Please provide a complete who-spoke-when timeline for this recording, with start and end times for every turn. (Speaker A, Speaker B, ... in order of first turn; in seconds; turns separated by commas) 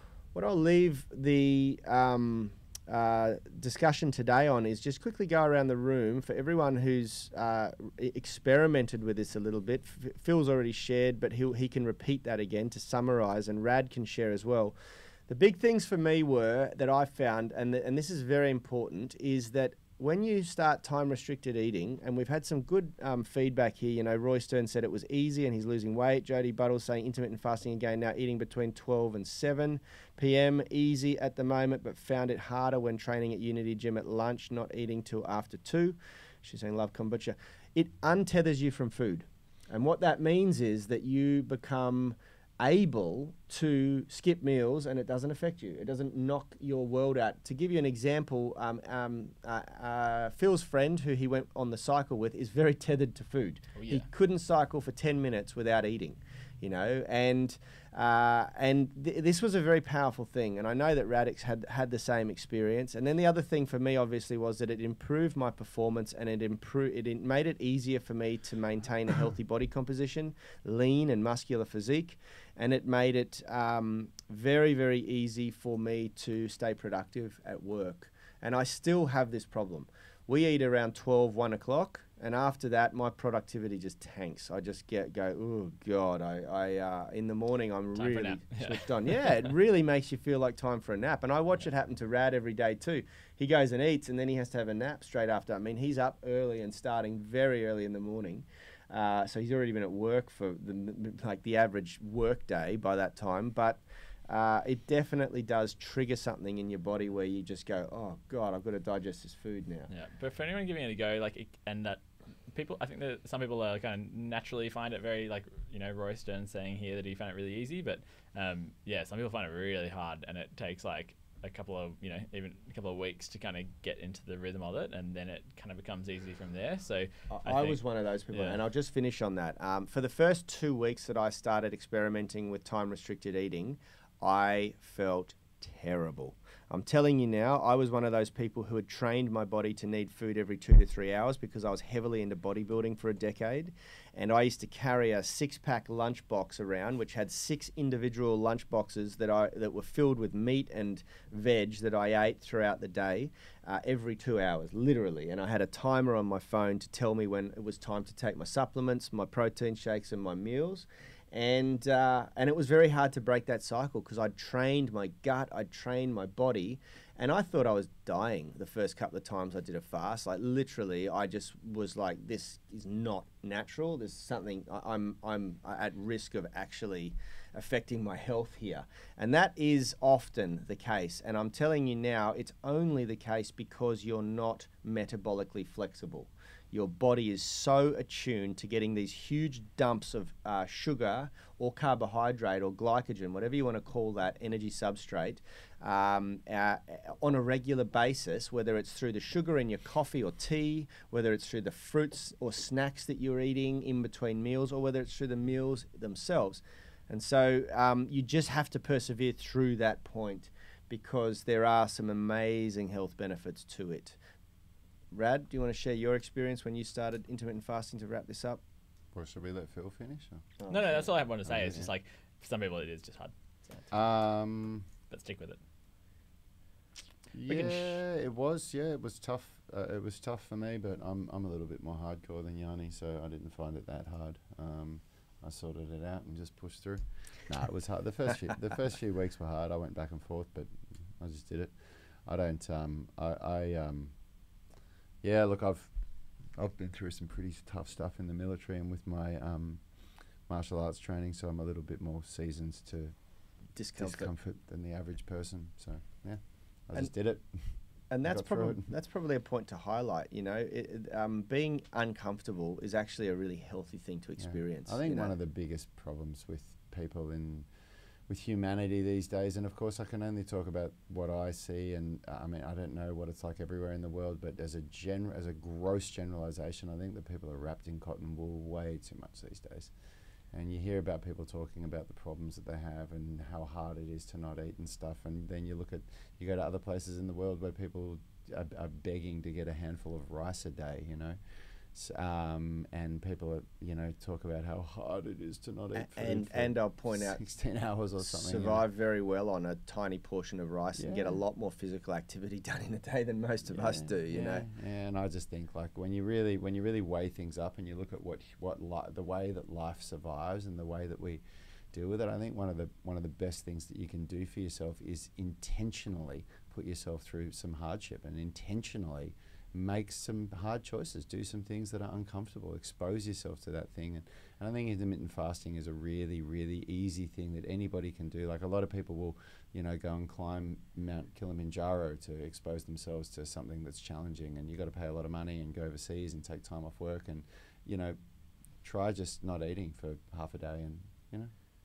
Speaker A: 0.3-14.7, Speaker A: 15.3-109.9, Speaker B: 53.7-54.0, Speaker B: 88.0-89.3, Speaker B: 109.9-127.8, Speaker A: 127.3-214.2, Speaker B: 128.3-128.6, Speaker A: 215.1-218.6, Speaker C: 219.1-220.5, Speaker A: 220.6-221.1, Speaker B: 220.7-223.9, Speaker C: 221.4-221.9, Speaker C: 223.9-224.8, Speaker B: 225.1-225.6, Speaker C: 227.3-244.1, Speaker B: 227.5-228.0, Speaker C: 245.2-245.9, Speaker C: 246.5-249.8, Speaker C: 250.5-253.2, Speaker A: 253.7-254.3, Speaker C: 254.0-258.9, Speaker A: 258.1-265.3, Speaker C: 264.4-267.7, Speaker C: 268.3-279.9, Speaker C: 280.5-291.4, Speaker C: 291.9-298.8, Speaker A: 295.9-297.4, Speaker A: 298.2-304.6, Speaker C: 301.0-301.4, Speaker C: 303.7-338.2, Speaker C: 338.8-341.5